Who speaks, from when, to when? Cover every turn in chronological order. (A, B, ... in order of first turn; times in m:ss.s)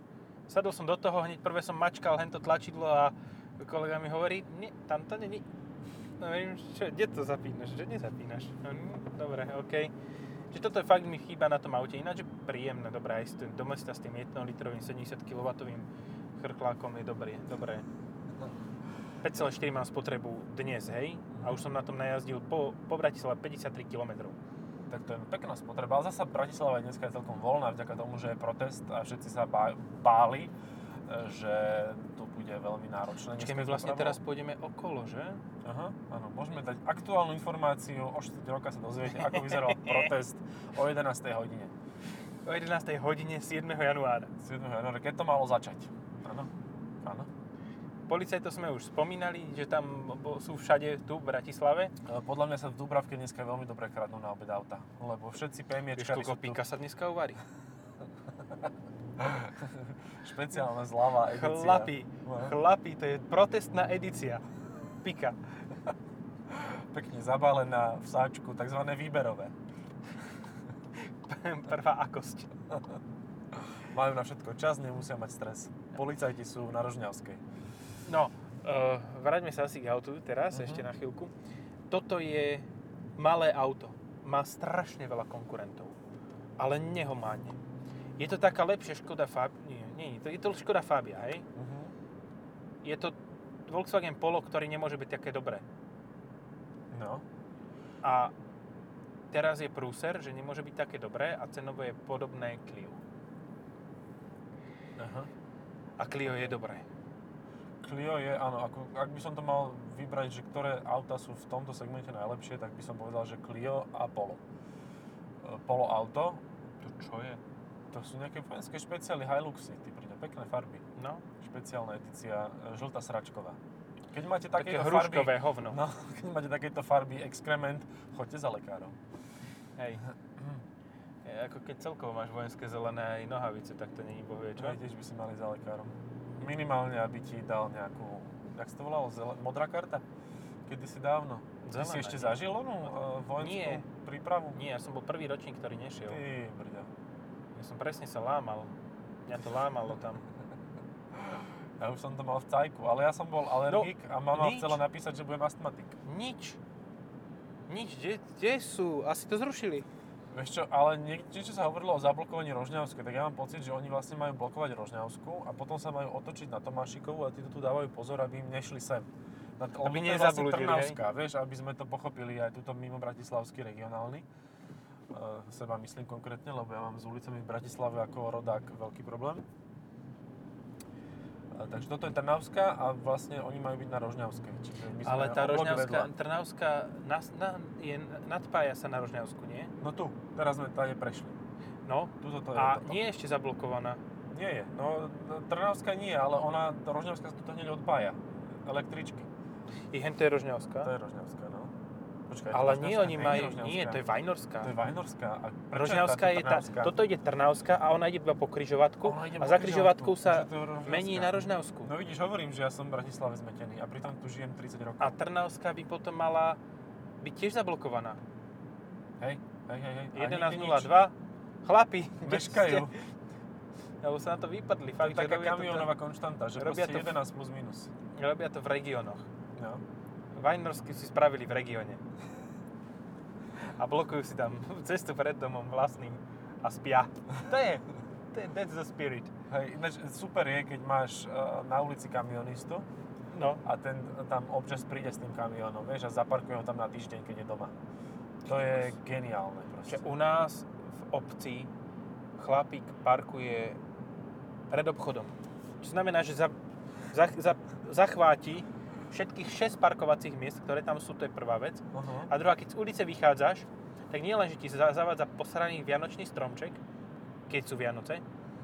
0:00.5-0:05.4 A
0:06.2-0:09.9 A
0:10.5-0:17.8 A
0:19.2-0:24.4 A
0:24.9-0:30.5 B
0:31.1-0:34.2 B
0:33.4-0:35.4 A
0:35.6-0:41.7 B
0:39.2-0:40.1 A
0:42.4-0:44.3 A
0:44.4-0:46.5 B
0:47.0-0:47.3 B
0:48.1-0:51.9 A
0:52.0-0:56.6 B
0:55.9-0:57.4 A
0:59.2-1:02.5 B
1:01.2-1:04.4 A
1:05.0-1:05.4 A
1:06.5-1:09.5 B
1:10.9-1:12.5 A
1:13.7-1:17.4 B
1:18.0-1:21.3 A
1:20.5-1:20.9 B
1:21.9-1:22.7 A
1:23.2-1:25.9 A
1:26.6-1:27.6 A
1:28.2-1:31.4 A
1:31.6-1:31.9 B
1:32.8-1:35.6 A
1:36.9-1:37.2 B
1:38.0-1:38.3 A
1:39.3-1:43.0 A
1:45.0-1:45.3 B
1:46.0-1:46.8 A
1:46.3-1:46.5 B
1:47.8-1:54.4 B
1:55.4-1:56.4 B
1:56.8-1:57.4 A
1:57.9-2:00.8 B
2:01.0-2:01.2 A
2:01.4-2:03.6 B
2:04.1-2:09.0 B
2:04.5-2:05.8 A
2:09.8-2:10.0 A
2:10.4-2:10.6 B
2:11.2-2:14.8 A
2:14.6-2:20.0 B
2:20.6-2:24.6 B
2:21.6-2:23.8 A
2:24.5-2:26.2 A
2:26.1-2:26.9 B
2:27.6-2:28.7 A
2:29.2-2:30.2 A
2:31.1-2:36.0 B
2:33.7-2:34.8 A
2:36.1-2:36.6 A
2:37.7-2:39.9 A
2:40.3-2:54.2 B
2:49.8-2:51.0 A
2:55.1-2:59.4 B
3:01.5-3:06.1 B
3:05.0-3:09.7 A
3:09.8-3:11.4 B
3:11.8-3:14.0 A
3:12.2-3:13.0 B
3:14.3-3:19.3 B
3:19.9-3:20.9 A
3:20.8-3:21.7 B
3:22.3-3:24.0 B
3:22.5-3:24.7 A
3:24.6-3:26.9 B
3:25.7-3:31.9 A
3:29.0-3:35.1 B
3:35.0-3:36.6 A
3:37.2-3:38.2 A
3:39.2-3:40.9 B
3:40.1-3:43.0 A
3:42.2-3:42.9 B
3:44.0-3:45.9 A
3:45.0-3:47.9 B
3:46.6-3:47.2 A
3:48.1-3:49.3 A
3:49.5-3:49.8 B
3:50.3-3:52.0 A
3:53.6-3:59.3 A
3:59.5-4:02.9 B
4:03.3-4:03.6 A
4:03.6-4:07.8 B
4:08.4-4:10.0 B
4:08.5-4:08.9 A
4:09.8-4:11.7 A
4:12.4-4:13.8 A
4:14.7-4:16.6 A
4:17.1-4:26.8 A
4:21.9-4:22.3 B
4:27.5-4:28.2 A